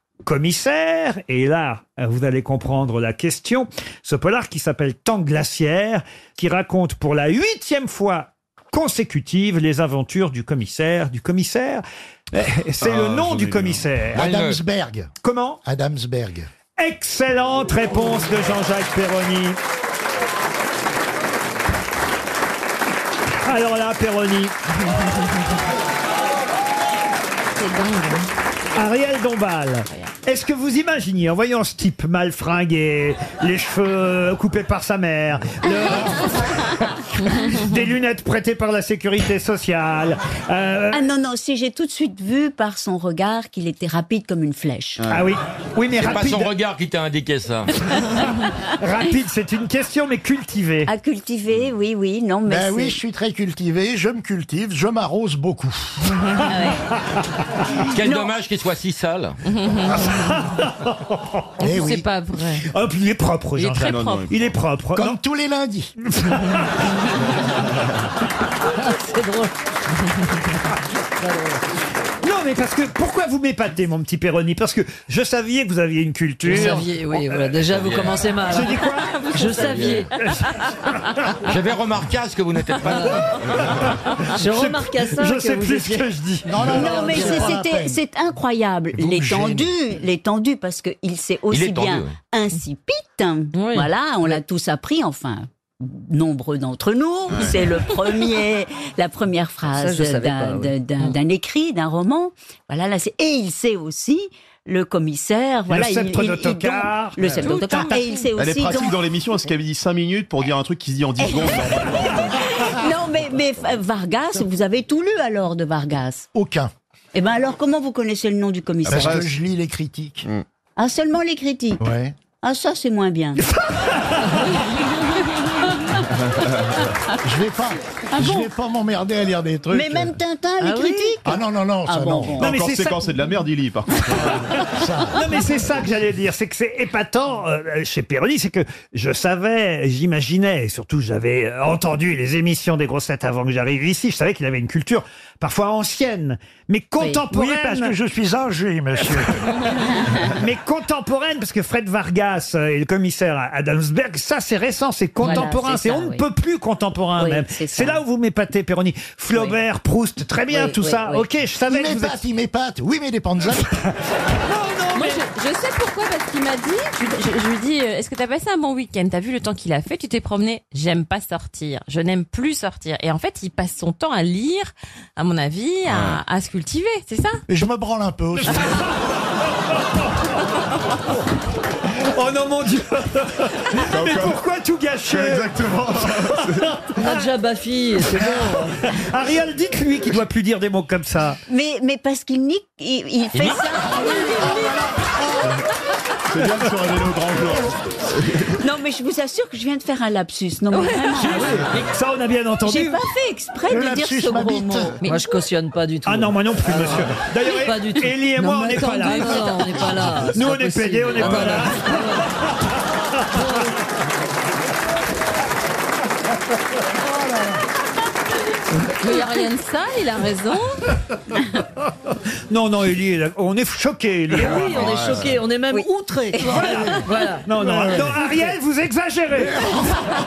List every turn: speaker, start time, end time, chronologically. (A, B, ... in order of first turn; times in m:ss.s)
0:00.2-0:14.2 A
0:14.1-0:15.1 B
0:14.2-0:14.6 C
0:15.2-0:15.6 A
0:15.6-0:16.5 B
0:16.8-0:19.6 A
0:23.4-0:24.5 A
0:27.6-0:28.3 D
0:28.8-0:41.0 A
0:40.9-0:45.0 E
0:45.1-0:46.5 A
0:46.0-0:47.7 C
0:48.8-0:50.9 A
0:50.9-0:53.0 E
0:52.5-0:56.0 B
0:56.5-0:56.8 E
0:57.9-0:59.4 C
0:58.0-0:58.3 E
0:59.6-1:00.0 D
1:00.1-1:01.4 A
1:01.6-1:02.1 B
1:01.6-1:02.6 D
1:02.7-1:05.2 A
1:03.6-1:04.3 D
1:04.9-1:05.9 B
1:06.2-1:06.6 A
1:08.8-1:09.5 F
1:12.2-1:16.9 A
1:16.4-1:20.1 F
1:17.7-1:18.3 C
1:18.5-1:20.5 A
1:19.6-1:20.0 C
1:21.4-1:23.2 C
1:24.3-1:26.1 F
1:24.4-1:27.3 A
1:26.5-1:28.0 B
1:26.7-1:27.5 F
1:26.7-1:49.0 E
1:29.0-1:29.7 B
1:31.5-1:32.2 C
1:33.6-1:33.9 D
1:39.7-1:41.1 F
1:45.7-1:48.1 A
1:47.4-1:48.2 D
1:48.4-1:51.9 G
1:51.2-1:56.3 E
1:56.4-1:56.7 B
1:57.1-1:59.3 E
1:58.8-2:00.3 B
2:00.8-2:01.8 E
2:01.8-2:02.1 B
2:02.4-2:03.4 E
2:03.6-2:04.4 A
2:07.2-2:10.2 B
2:08.1-2:08.5 E
2:09.7-2:12.4 E
2:11.2-2:12.5 B
2:12.4-2:13.1 A
2:12.4-2:13.9 G
2:14.6-2:28.0 A
2:14.7-2:15.2 B
2:27.3-2:29.4 B
2:29.9-2:30.3 E
2:30.3-2:42.2 A
2:35.2-2:36.2 E
2:37.2-2:38.0 E
2:40.5-2:41.2 E
2:41.7-2:43.8 B
2:44.5-2:45.2 A
2:44.9-2:57.4 D
2:57.5-2:58.7 B
3:02.0-3:07.1 A
3:07.0-3:08.7 F
3:08.9-3:11.4 A
3:11.5-3:14.8 E
3:13.4-3:13.7 C
3:13.8-3:15.5 B
3:16.5-3:17.6 B
3:18.6-3:21.6 E
3:21.3-3:23.0 A
3:22.6-3:25.0 E
3:23.6-3:25.0 B
3:25.0-3:32.3 F
3:26.1-3:29.6 A
3:30.3-3:32.0 A
3:39.0-3:40.8 D
3:42.5-3:44.7 A
3:44.3-3:48.1 F
3:46.5-3:49.8 A